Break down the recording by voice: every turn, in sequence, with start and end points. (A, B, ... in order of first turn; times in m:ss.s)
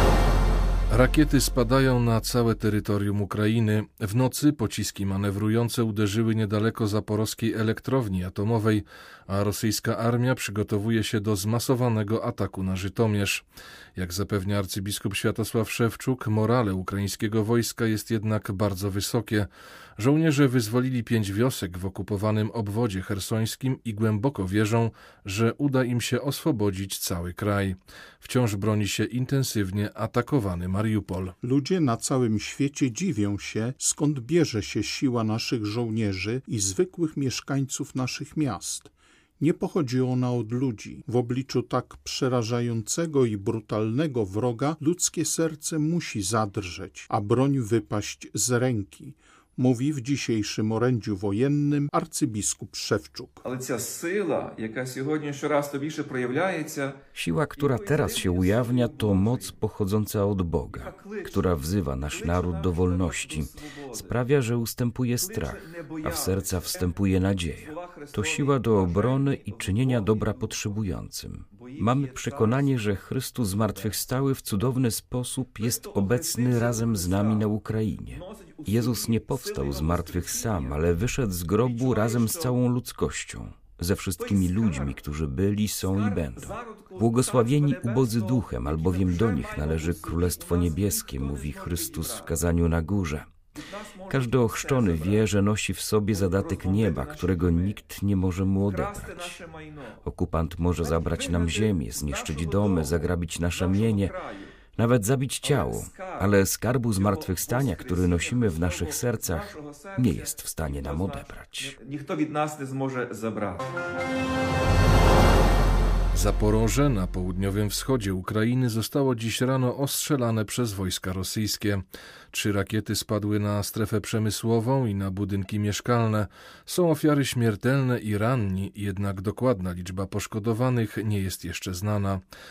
0:00.9-0:13.4 A
0:14.0-0:31.3 A
0:31.4-0:53.4 B
0:53.4-0:57.0 C
0:57.1-1:33.3 D
0:57.6-0:59.6 C
1:00.6-1:01.5 C
1:02.1-1:04.2 C
1:05.1-1:10.9 C
1:11.5-1:14.0 C
1:15.6-1:17.5 C
1:18.1-1:21.0 C
1:21.5-1:22.6 C
1:24.1-1:25.0 C
1:25.8-1:32.4 C
1:33.5-1:35.3 C
1:34.1-1:39.4 D
1:36.1-1:37.8 C
1:38.6-1:40.0 C
1:40.0-1:44.2 D
1:40.8-1:44.6 C
1:44.8-1:51.8 D
1:45.4-1:53.7 C
1:56.1-2:12.2 A